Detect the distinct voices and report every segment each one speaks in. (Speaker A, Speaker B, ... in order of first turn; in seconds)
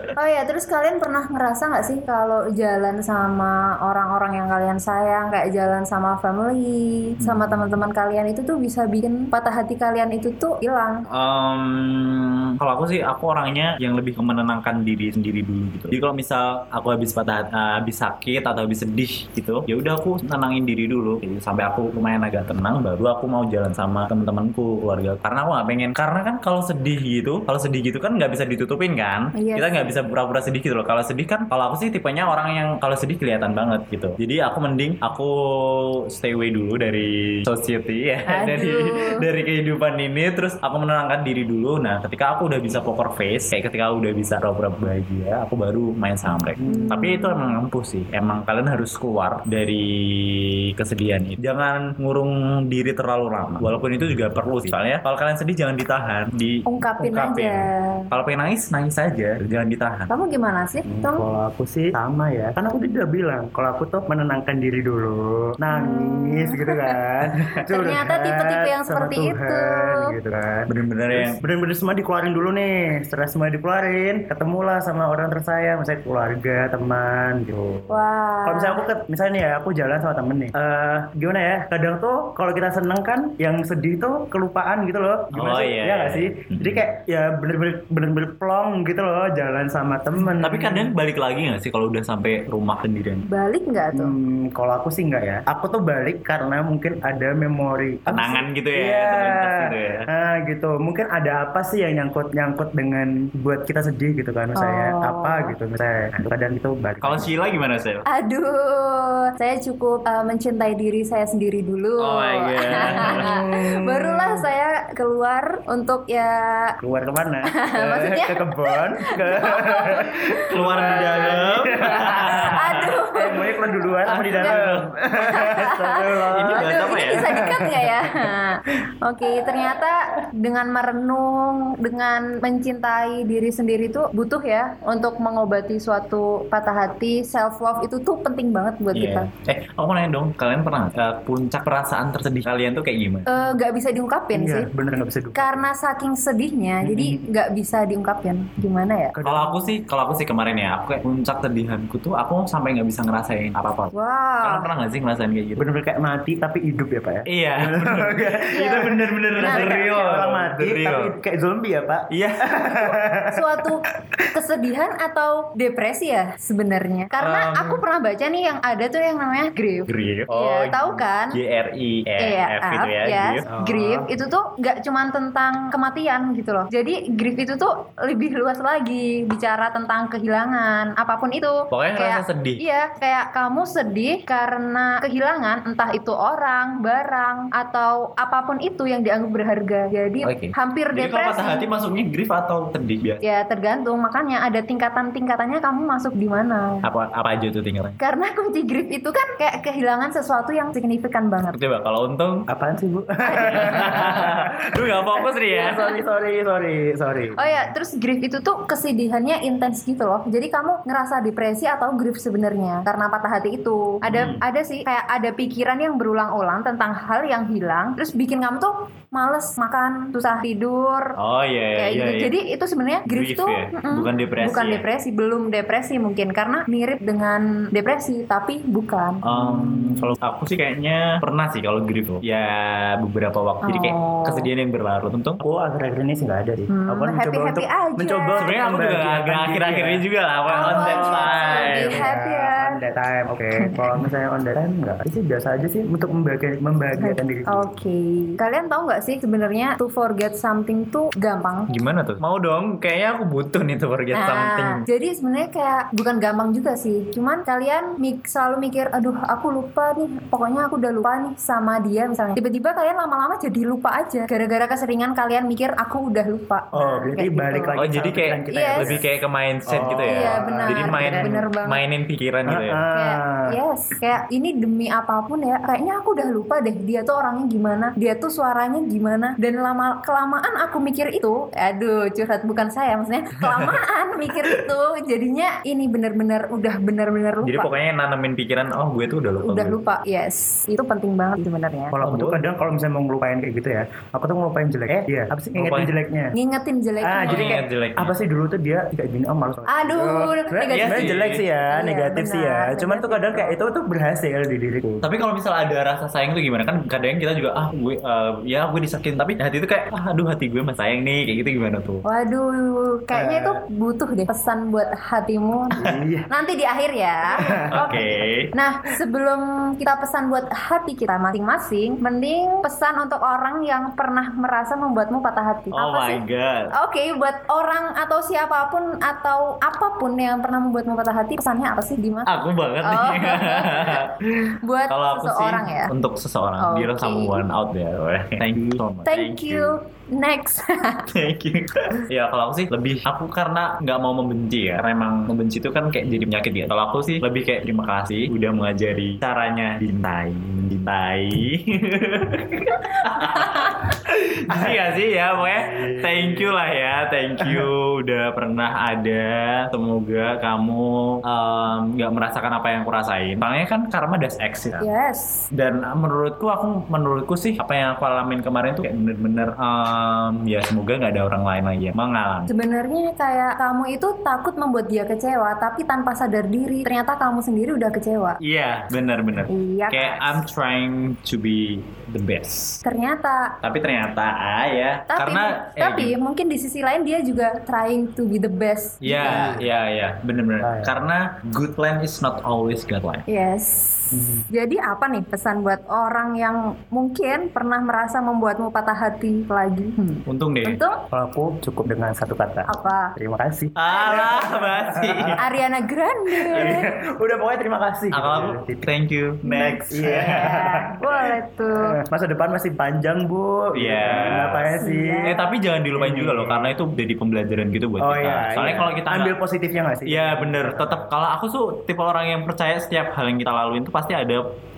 Speaker A: 0.2-11.0, 29.4-30.0, 38.3-39.3, 46.6-47.6, 56.7-58.1, 60.1-61.2, 65.7-67.0, 67.7-70.1, 77.9-78.8, 93.3-94.2, 104.6-105.5, 108.1-116.8, 117.6-121.4, 122.2-124.6, 125.2-139.3, 143.3-144.7, 145.3-149.1, 153.9-154.7, 158.5-159.8, 163.3-171.4, 172.2-191.7, 193.2-196.8, 198.0-201.6, 203.3-204.2, 205.1-205.7, 207.4-221.1, 221.8-229.2, 233.6-234.5, 236.7-238.5, 240.5-242.7, 247.0-251.7, 254.2-267.7, 268.5-268.9, 270.1-271.8, 272.9-287.7, 289.4-291.9, 296.4-297.6, 299.7-301.2, 301.7-303.6, 312.1-318.0, 318.5-326.2, 326.7-334.1, 334.6-335.9, 336.6-337.4, 339.1-341.1, 364.8-365.5, 372.5-378.4, 379.5-380.4, 382.9-383.6, 385.1-389.6, 393.3-401.0, 402.7-403.1, 403.9-404.5, 405.4-406.9, 409.4-411.9, 414.8-415.4
Speaker B: 7.2-7.8, 11.2-60.1, 70.7-71.4, 85.3-86.8, 90.3-93.2, 98.1-100.1, 107.0-108.0, 112.0-113.4, 120.5-123.0, 124.0-124.9, 126.3-127.3, 138.9-143.3, 149.2-155.7, 157.3-161.2, 162.1-162.7, 167.2-167.8, 169.9-173.4, 181.7-182.6, 190.2-193.2, 196.8-198.0, 201.5-202.5, 203.4-205.9, 214.0-214.4, 221.2-222.3, 223.1-224.8, 229.2-235.4, 238.4-242.1, 251.7-254.8, 267.8-272.8, 283.4-283.8, 284.4-284.7, 287.4-289.8, 292.0-292.5, 295.6-295.9, 297.3-298.1, 300.7-301.4, 305.0-312.0, 317.7-318.5, 325.7-326.7, 332.3-339.8, 341.1-364.9, 365.5-372.5, 378.4-382.8, 383.6-386.1, 389.0-393.2, 400.3-400.8, 403.8-405.4, 406.5-406.9, 408.1-410.5, 413.7-414.7, 415.2-419.4, 420.1-424.4
Speaker C: 46.6-46.9, 60.9-90.9, 93.9-107.3, 112.8-114.5, 116.8-128.3, 129.4-129.8, 144.3-145.7, 146.8-147.3, 149.1-149.7, 155.6-163.6, 173.5-174.2, 202.5-207.7, 214.1-214.4, 229.3-230.2, 235.4-240.0, 240.6-247.7, 266.7-269.1, 269.7-271.4, 272.5-273.5, 291.9-296.3, 297.0-305.1, 313.1-313.6, 315.7-316.3, 317.4-318.0, 354.5-354.8, 355.4-356.6, 357.4-357.7, 389.1-389.7, 390.6-390.9, 394.1-394.5, 401.1-405.4, 406.3-408.9, 409.9-415.3, 415.9-416.8, 418.0-421.1